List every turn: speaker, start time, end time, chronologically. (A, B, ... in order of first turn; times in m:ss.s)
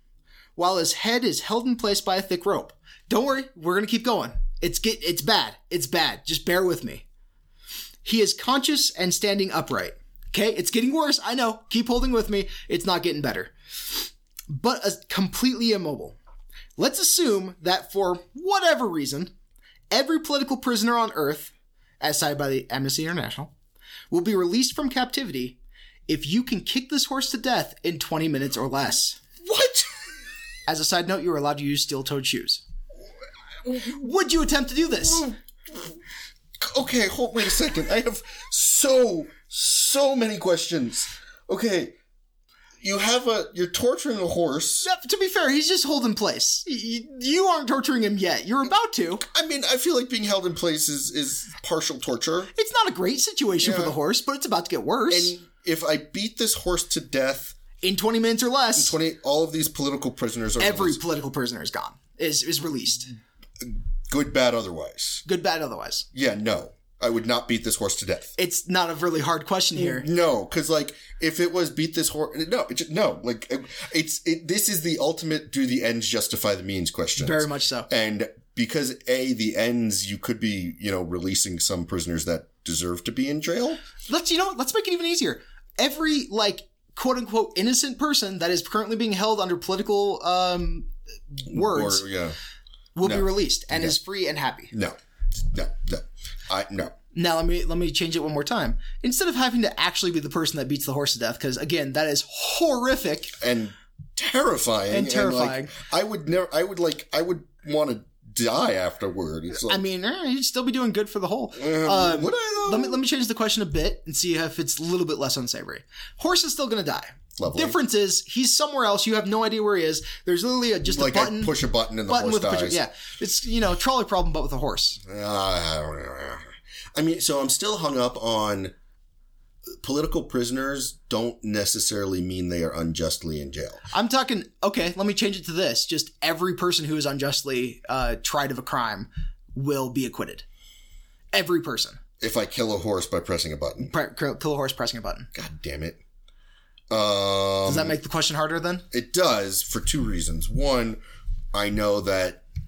0:00.6-0:07.0 A
0:08.0-0:16.2 A
0:16.8-0:19.3 A
0:19.9-0:23.5 A
0:24.1-0:29.2 A
0:29.4-0:29.9 B
0:30.7-0:32.6 A
0:33.6-0:35.3 A
0:35.0-0:36.0 B
0:36.6-0:41.9 B
0:42.8-0:44.9 B
0:44.8-0:49.2 A
0:49.2-0:52.5 B
0:52.5-0:55.3 A
0:53.6-0:54.0 B
0:55.1-0:57.6 B
0:57.8-0:59.0 A
0:58.8-1:01.0 B
1:00.6-1:03.1 A
1:03.6-1:05.2 B
1:05.2-1:06.0 A
1:06.1-1:08.3 B
1:08.4-1:10.1 A
1:09.7-1:23.8 B
1:17.2-1:17.9 A
1:24.1-1:32.0 A
1:31.5-1:32.4 B
1:33.0-1:34.7 A
1:33.0-1:33.9 B
1:34.7-1:36.9 B
1:37.1-1:43.4 A
1:43.4-1:49.8 B
1:44.9-1:45.7 A
1:49.5-2:01.5 A
1:51.6-1:53.0 B
1:57.4-1:57.8 B
2:00.8-2:02.8 B
2:02.1-2:05.0 A
2:05.0-2:08.7 B
2:09.8-2:13.8 B
2:13.9-2:20.4 A
2:21.3-2:22.0 A
2:22.2-2:23.9 B
2:23.8-2:25.3 A
2:25.3-2:26.0 B
2:26.9-2:28.0 B
2:27.6-2:28.8 A
2:28.9-2:31.0 B
2:31.5-2:32.4 B